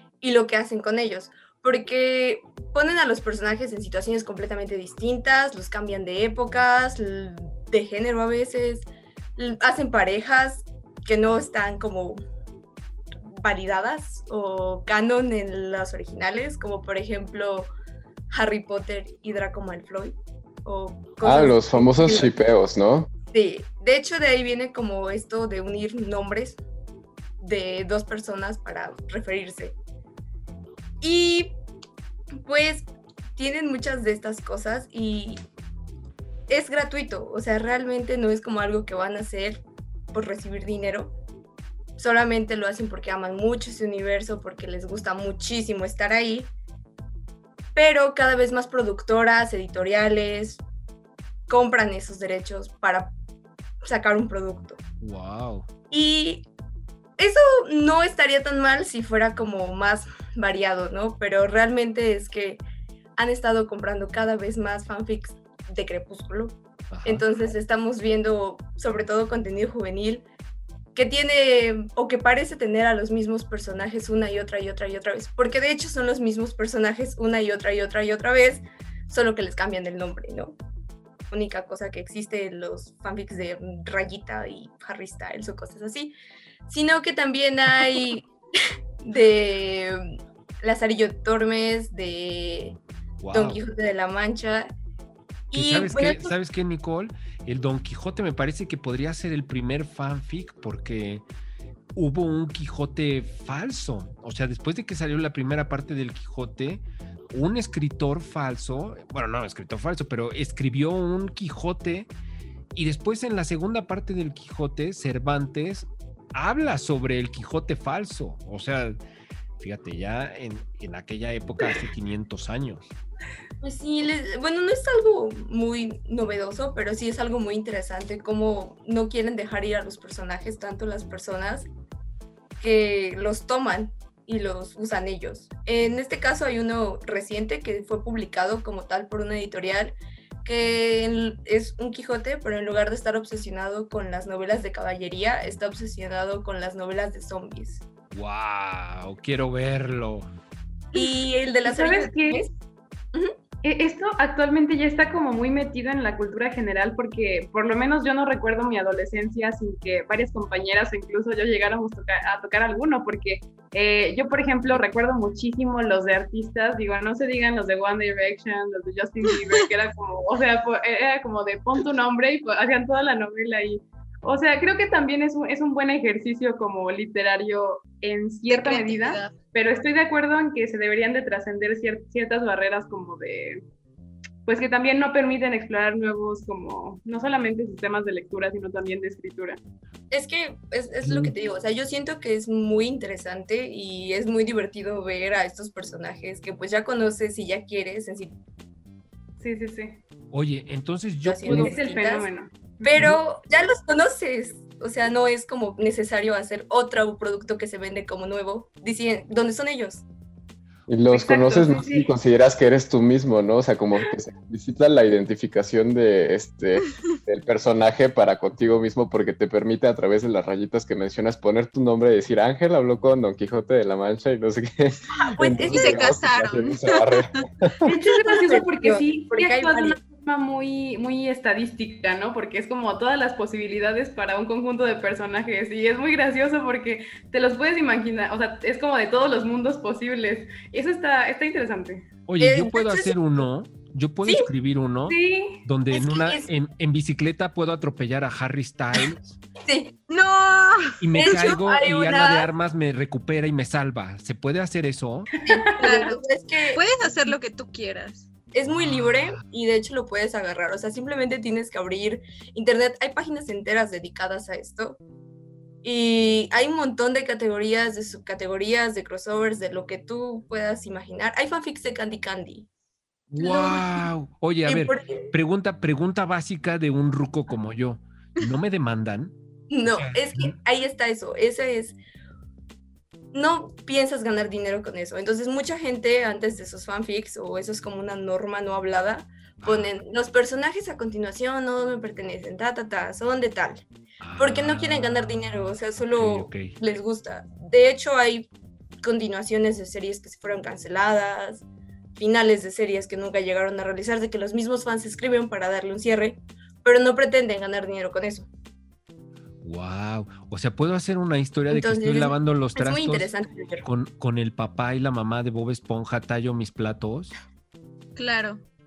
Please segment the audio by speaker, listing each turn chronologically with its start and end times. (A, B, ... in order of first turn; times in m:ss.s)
0:00.2-0:08.8 A
0:09.4-0:12.2 A
0:13.4-0:17.7 A
0:18.3-0:22.3 A
0:21.2-0:23.1 B
0:23.3-0:26.6 A
0:27.4-0:29.8 A
0:31.0-0:31.6 A
0:32.4-0:35.4 A
0:36.5-0:41.2 A
0:42.0-0:46.5 A
0:47.7-0:50.6 A
0:51.5-0:53.1 A
0:53.8-0:54.8 A
0:55.0-0:55.7 C
0:55.9-0:56.4 A
0:57.2-1:02.6 A
1:03.2-1:10.3 A
1:06.9-1:07.2 C
1:11.0-1:20.6 A
1:21.3-1:26.1 A
1:26.7-1:28.3 A
1:29.0-1:30.1 A
1:30.6-1:32.8 A
1:33.2-1:33.6 C
1:33.3-1:34.7 A
1:35.5-1:36.3 A
1:35.6-1:41.2 C
1:42.0-1:52.1 C
1:52.7-1:59.0 C
1:59.6-2:02.9 C
2:03.6-2:11.7 A
2:12.6-2:27.8 A
2:28.1-2:30.3 C
2:30.9-2:32.5 A
2:31.6-2:32.4 D
2:33.6-3:03.6 D
2:58.5-2:59.4 E
3:04.4-3:09.6 D
3:10.1-3:18.3 A
3:11.0-3:11.3 C
3:19.4-3:20.0 D
3:20.3-3:21.8 C
3:21.2-3:22.3 A
3:21.5-3:22.5 D
3:22.8-3:30.0 A
3:30.9-3:47.8 B
3:31.1-3:32.1 D
3:45.1-3:46.2 A
3:45.7-3:47.4 E
3:47.8-4:02.0 D
3:47.9-3:50.0 A
4:02.3-4:09.4 C
4:02.4-4:03.1 A
4:05.1-4:05.6 D
4:05.9-4:06.4 A
4:09.7-4:10.0 A
4:10.1-4:11.3 E
4:11.0-4:15.3 C
4:11.2-4:12.5 A
4:15.4-4:16.1 D
4:15.5-4:16.8 A
4:15.8-4:18.3 E
4:18.5-4:25.0 A
4:18.7-4:19.4 C
4:25.8-4:32.7 A
4:33.3-4:39.4 C
4:33.6-4:33.8 A
4:34.7-4:35.3 A
4:39.7-4:42.0 A
4:39.9-4:40.6 C
4:43.3-4:53.8 A
4:49.6-4:49.9 C
4:54.2-4:56.8 C
4:54.4-4:58.5 A
4:59.0-5:01.6 A
5:02.2-5:08.5 A
5:09.6-5:17.3 C
5:11.7-5:13.9 A
5:18.2-5:18.6 E